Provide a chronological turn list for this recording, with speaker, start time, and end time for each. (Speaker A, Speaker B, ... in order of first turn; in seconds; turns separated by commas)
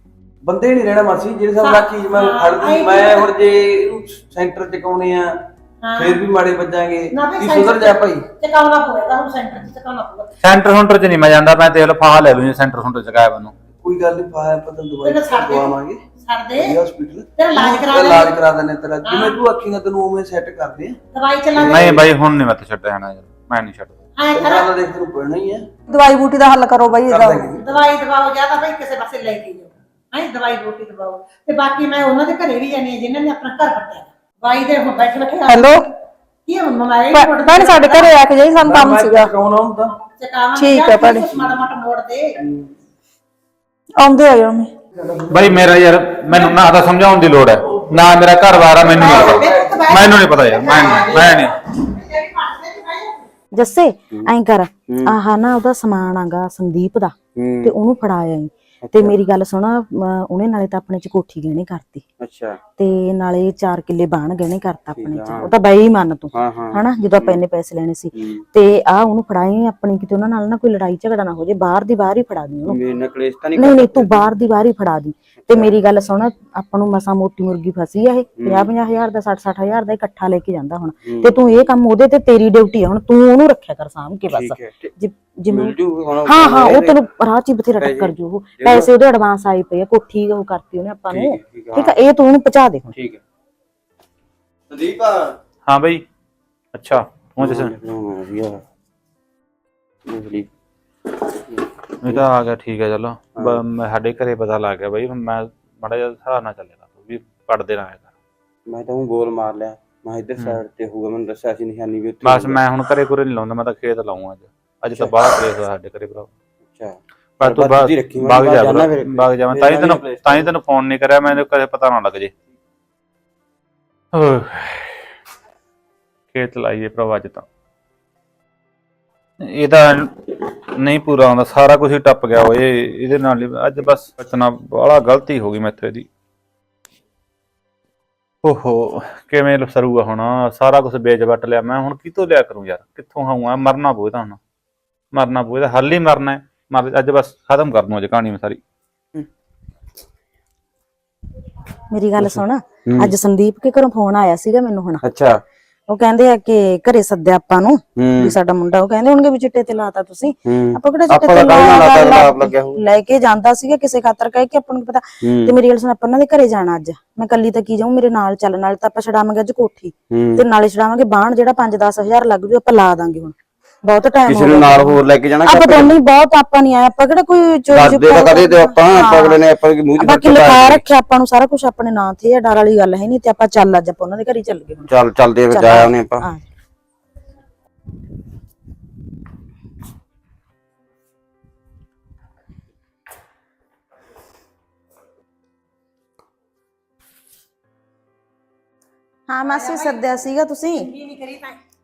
Speaker A: 0.4-5.4, Speaker B: 1.6-3.3, Speaker B: 5.8-6.2, Speaker A: 6.0-8.2, Speaker B: 7.1-10.3, Speaker C: 10.4-13.5, Speaker A: 13.8-16.0, Speaker B: 15.0-16.8, Speaker A: 16.6-21.0, Speaker B: 17.4-18.3, Speaker B: 19.0-19.4, Speaker B: 21.1-22.0, Speaker A: 21.5-22.0, Speaker C: 21.6-24.0, Speaker B: 24.2-24.7, Speaker A: 24.3-25.7, Speaker D: 25.9-27.4, Speaker A: 27.1-27.6, Speaker B: 27.5-35.9, Speaker D: 35.5-35.8, Speaker B: 36.5-38.1, Speaker D: 37.1-39.3, Speaker A: 38.6-39.9, Speaker B: 40.1-42.4, Speaker D: 40.5-41.3, Speaker D: 44.0-44.7, Speaker A: 45.0-45.5, Speaker C: 45.3-51.5, Speaker B: 48.8-53.2, Speaker A: 49.3-49.5, Speaker E: 53.5-62.0, Speaker F: 54.9-55.1, Speaker F: 57.3-57.7, Speaker F: 58.8-59.1, Speaker F: 62.2-62.6, Speaker E: 62.8-72.8, Speaker F: 65.0-65.5, Speaker F: 66.3-67.4, Speaker F: 68.1-68.4, Speaker F: 72.7-74.3, Speaker E: 73.6-85.7, Speaker F: 78.4-78.7, Speaker F: 81.0-81.4, Speaker F: 84.3-84.9, Speaker F: 85.5-87.0, Speaker E: 86.3-92.9, Speaker F: 87.8-88.9, Speaker F: 91.1-91.9, Speaker F: 92.9-93.2, Speaker F: 94.7-95.3, Speaker C: 95.7-96.0, Speaker C: 96.7-97.7, Speaker F: 97.4-98.6, Speaker F: 100.0-100.5, Speaker F: 101.3-102.3, Speaker C: 102.0-108.0, Speaker F: 108.7-112.6, Speaker C: 112.2-116.3, Speaker F: 114.9-115.3, Speaker F: 116.7-120.5, Speaker C: 117.4-122.3, Speaker C: 124.1-125.0, Speaker C: 126.3-127.5, Speaker C: 129.4-136.1, Speaker C: 138.4-144.4, Speaker C: 145.1-148.6, Speaker E: 151.9-155.0, Speaker F: 152.2-153.1, Speaker F: 155.0-155.4, Speaker E: 155.9-179.4, Speaker F: 158.0-158.3, Speaker F: 160.4-162.8, Speaker F: 165.2-165.5, Speaker F: 170.1-170.4, Speaker F: 174.2-175.9, Speaker F: 177.7-180.8, Speaker E: 180.0-184.9, Speaker F: 184.9-186.2, Speaker E: 185.5-186.4, Speaker E: 199.3-200.9, Speaker B: 199.4-200.0, Speaker B: 200.8-201.6